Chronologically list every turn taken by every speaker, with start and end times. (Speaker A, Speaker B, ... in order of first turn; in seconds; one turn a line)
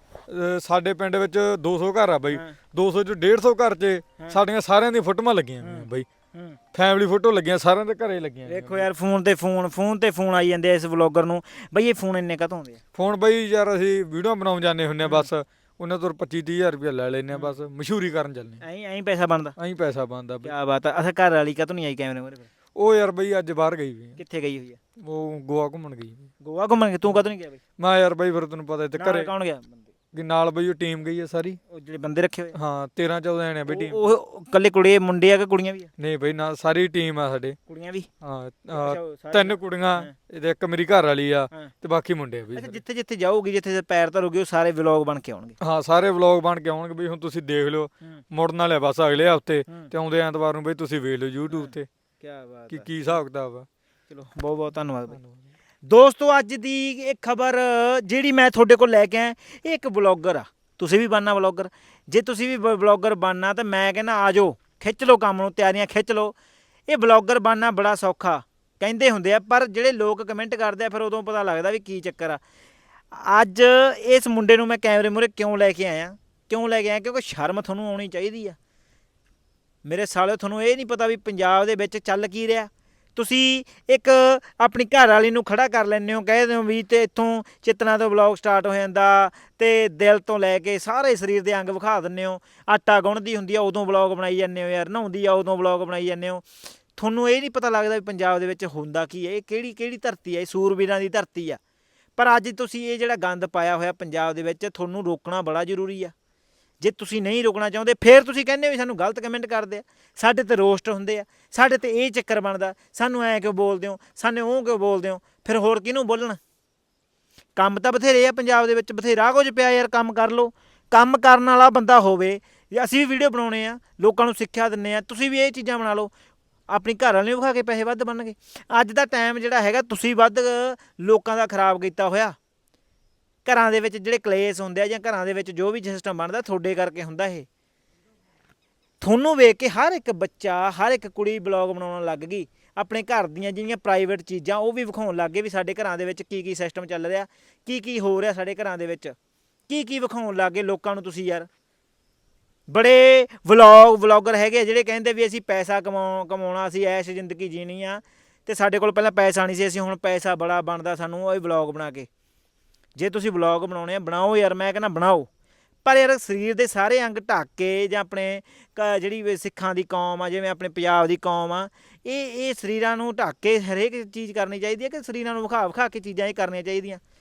Speaker A: 0.3-6.1
Speaker B: 2.3-2.6
Speaker B: 5.6-6.6
Speaker A: 6.7-8.9
Speaker B: 8.4-12.8
Speaker A: 12.9-18.6
Speaker B: 18.6-19.6
Speaker A: 19.6-20.5
Speaker B: 20.4-22.5
Speaker A: 22.8-24.2
Speaker B: 24.2-24.8
Speaker A: 25.0-26.3
Speaker B: 26.4-27.6
Speaker A: 27.8-29.3
Speaker B: 28.9-29.9
Speaker A: 30.1-31.6
Speaker B: 31.7-32.5
Speaker A: 32.5-34.1
Speaker B: 33.7-35.9
Speaker A: 36.0-37.6
Speaker B: 37.7-38.1
Speaker A: 38.2-42.8
Speaker B: 38.7-40.1
Speaker B: 42.5-45.6
Speaker A: 45.6-51.9
Speaker B: 51.5-53.2
Speaker A: 52.7-53.7
Speaker B: 54.1-55.2
Speaker B: 55.8-66.3
Speaker B: 66.9-72.4
Speaker B: 73.1-78.5
Speaker B: 79.8-101.6
Speaker B: 102.2-106.1
Speaker B: 106.8-116.4
Speaker B: 117.5-126.1
Speaker B: 126.7-132.3
Speaker B: 133.4-137.5
Speaker B: 139.0-149.1
Speaker B: 149.7-151.5
Speaker B: 152.7-162.1
Speaker B: 162.9-165.3
Speaker B: 165.8-177.0